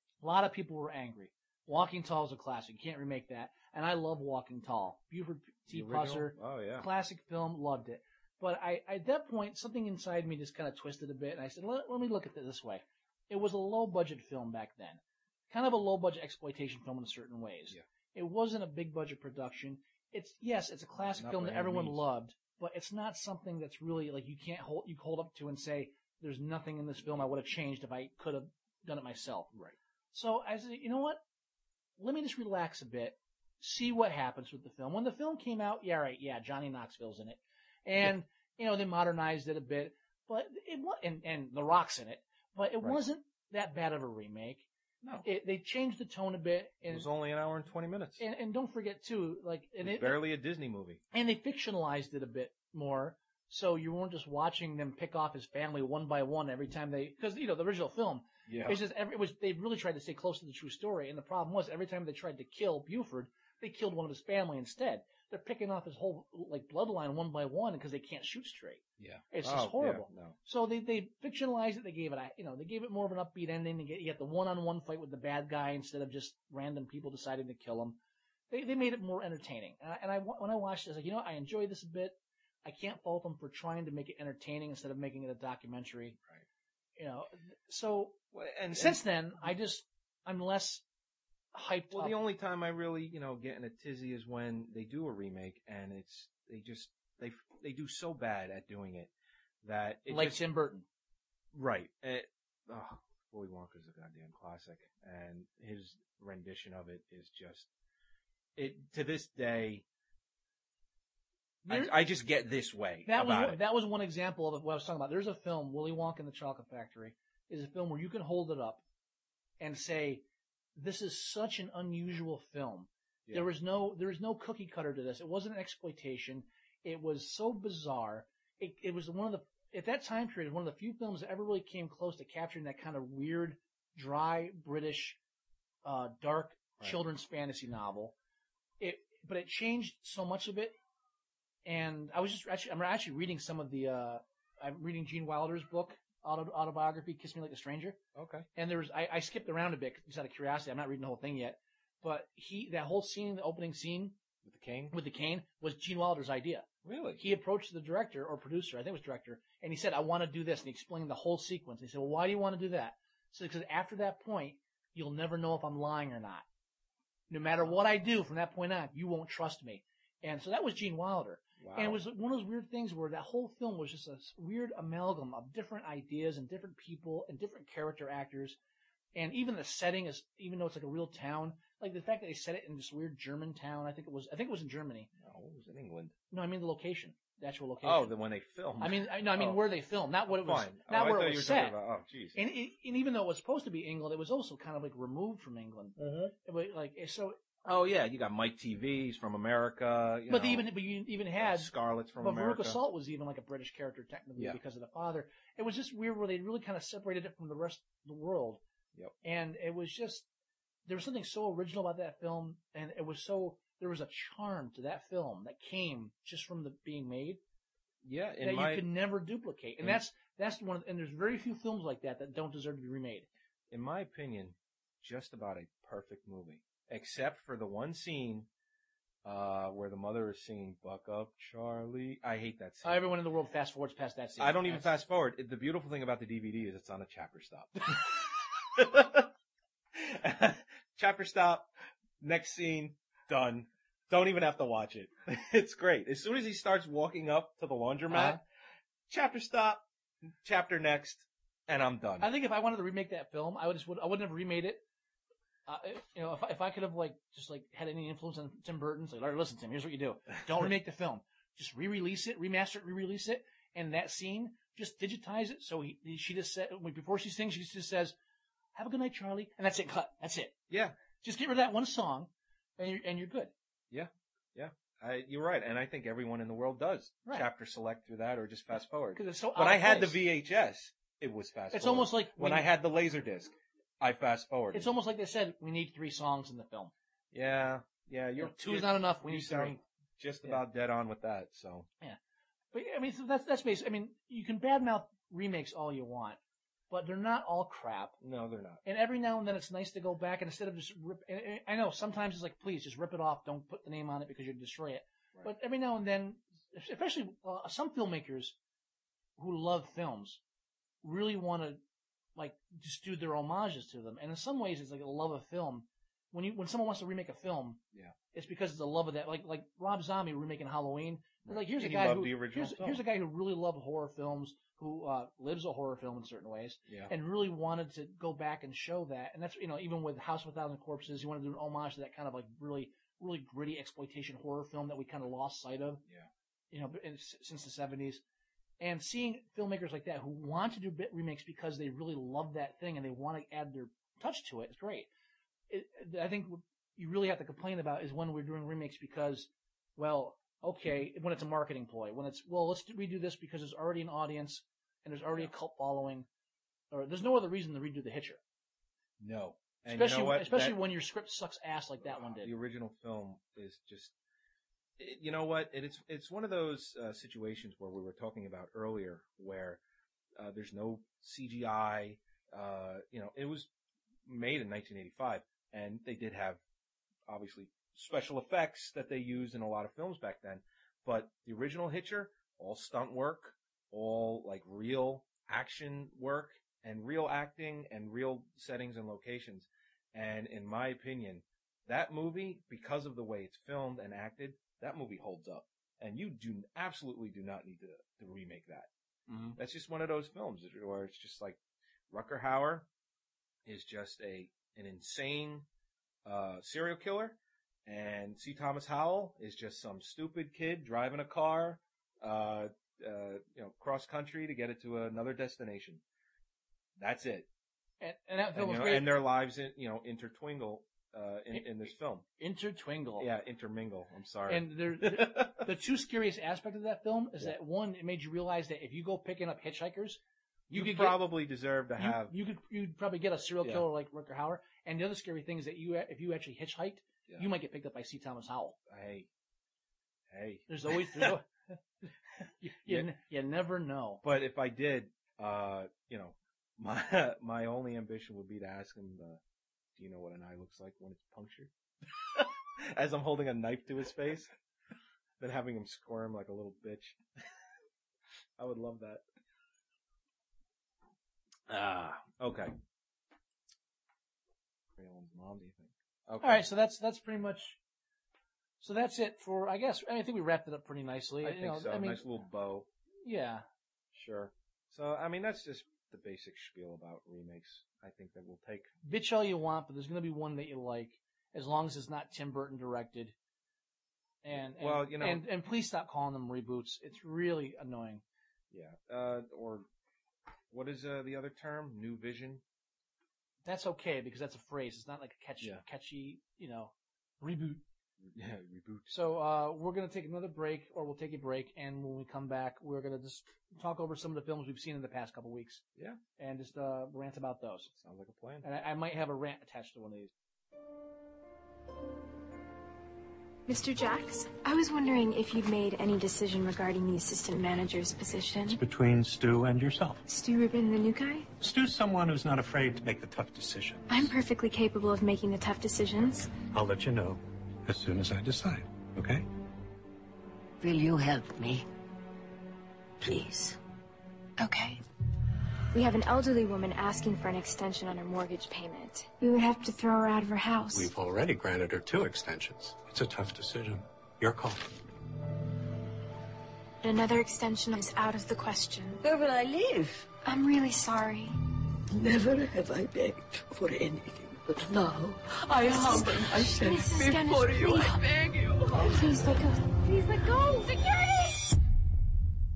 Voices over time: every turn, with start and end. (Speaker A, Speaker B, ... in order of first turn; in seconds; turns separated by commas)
Speaker A: 0.2-29.5, Speaker B: 5.7-6.9, Speaker B: 21.0-22.0, Speaker A: 30.1-31.2, Speaker A: 32.0-44.6, Speaker A: 45.2-47.1, Speaker B: 46.9-48.2, Speaker A: 48.2-50.2, Speaker B: 49.8-51.0, Speaker A: 51.1-78.0, Speaker B: 58.5-58.8, Speaker B: 69.0-70.4, Speaker A: 78.5-86.2, Speaker A: 87.0-88.2, Speaker B: 88.3-89.0, Speaker A: 88.7-90.8, Speaker A: 91.5-92.2, Speaker B: 91.9-100.4, Speaker A: 100.1-100.8, Speaker B: 101.5-107.7, Speaker B: 108.5-109.8, Speaker A: 111.6-112.0, Speaker B: 111.7-113.6, Speaker A: 113.0-118.8, Speaker A: 119.6-120.2, Speaker A: 120.8-135.2, Speaker A: 135.8-138.1, Speaker A: 138.8-140.7, Speaker A: 141.6-148.0, Speaker B: 148.1-148.5, Speaker A: 148.6-154.2, Speaker B: 154.4-154.9, Speaker A: 154.9-156.7, Speaker B: 156.8-157.2, Speaker A: 157.2-166.4, Speaker A: 167.3-178.6, Speaker B: 171.6-172.0, Speaker A: 179.1-185.1, Speaker B: 185.2-186.1, Speaker A: 186.3-188.1, Speaker B: 187.8-189.7, Speaker A: 188.8-191.8, Speaker B: 190.3-192.4, Speaker A: 192.3-197.4, Speaker B: 196.0-196.3, Speaker B: 197.6-200.7, Speaker A: 200.3-208.6, Speaker B: 201.4-202.8, Speaker A: 209.2-210.2, Speaker A: 210.9-217.4, Speaker B: 218.0-218.8, Speaker A: 218.4-223.3, Speaker B: 223.7-228.5, Speaker B: 229.2-233.1, Speaker A: 232.8-234.9, Speaker B: 234.4-239.3, Speaker B: 239.9-241.7, Speaker B: 242.2-248.4, Speaker A: 248.1-248.4, Speaker B: 249.1-249.8, Speaker B: 250.4-252.3, Speaker A: 252.2-254.8, Speaker A: 255.7-268.1, Speaker A: 268.7-270.5, Speaker B: 270.7-270.9, Speaker A: 271.2-273.5, Speaker B: 273.9-284.9, Speaker A: 279.1-280.3, Speaker A: 281.7-282.7, Speaker A: 284.7-286.9, Speaker B: 287.3-291.9, Speaker A: 288.4-289.8, Speaker A: 292.7-296.4, Speaker A: 296.9-298.1, Speaker B: 298.2-298.8, Speaker A: 298.8-308.6, Speaker A: 309.4-310.4, Speaker A: 311.0-311.8, Speaker A: 312.4-317.8, Speaker A: 318.3-336.0, Speaker B: 321.4-323.0, Speaker B: 326.9-327.1, Speaker A: 336.7-338.2, Speaker A: 338.8-345.1, Speaker A: 345.7-356.3, Speaker A: 356.9-358.4, Speaker B: 359.2-360.8, Speaker A: 359.9-362.5, Speaker B: 362.0-364.1, Speaker B: 365.0-369.8, Speaker B: 370.4-373.7, Speaker B: 374.2-376.6, Speaker B: 377.3-398.9, Speaker A: 399.3-399.6, Speaker B: 399.5-401.6, Speaker B: 402.1-402.9, Speaker B: 403.6-405.6, Speaker B: 406.2-416.0, Speaker B: 417.0-417.5, Speaker A: 418.0-419.1, Speaker B: 418.5-422.2, Speaker A: 422.4-423.3, Speaker B: 423.2-425.7, Speaker A: 424.5-430.2, Speaker B: 430.7-432.3, Speaker A: 430.7-431.3, Speaker A: 432.0-438.8, Speaker B: 438.9-439.3, Speaker B: 440.3-441.4, Speaker A: 440.7-441.4, Speaker A: 442.6-444.2, Speaker B: 442.8-443.1, Speaker B: 444.2-449.4, Speaker B: 449.9-454.5, Speaker B: 455.4-457.2, Speaker B: 458.6-459.2, Speaker B: 461.7-462.8, Speaker B: 464.9-466.6, Speaker A: 466.4-467.8, Speaker A: 468.8-472.2, Speaker B: 471.4-472.9, Speaker A: 473.2-473.6, Speaker B: 474.1-478.9, Speaker A: 479.0-483.3, Speaker A: 484.4-488.2, Speaker B: 484.5-485.4, Speaker B: 488.7-489.9, Speaker B: 490.7-492.6, Speaker A: 493.6-497.8, Speaker B: 498.2-499.1, Speaker A: 499.1-505.8, Speaker A: 506.4-507.9, Speaker B: 508.0-508.6, Speaker A: 508.6-510.3, Speaker C: 513.7-518.8, Speaker D: 518.7-520.2, Speaker C: 520.3-521.5, Speaker D: 521.6-524.3, Speaker C: 524.1-526.5, Speaker D: 526.7-529.5, Speaker E: 530.8-531.9, Speaker E: 533.2-533.8, Speaker C: 534.6-535.0, Speaker C: 535.9-541.1, Speaker D: 540.9-544.9, Speaker C: 547.0-549.2, Speaker E: 549.2-550.3, Speaker C: 550.4-551.5, Speaker E: 552.1-559.4, Speaker C: 555.8-558.2, Speaker C: 558.9-561.3, Speaker E: 560.7-561.2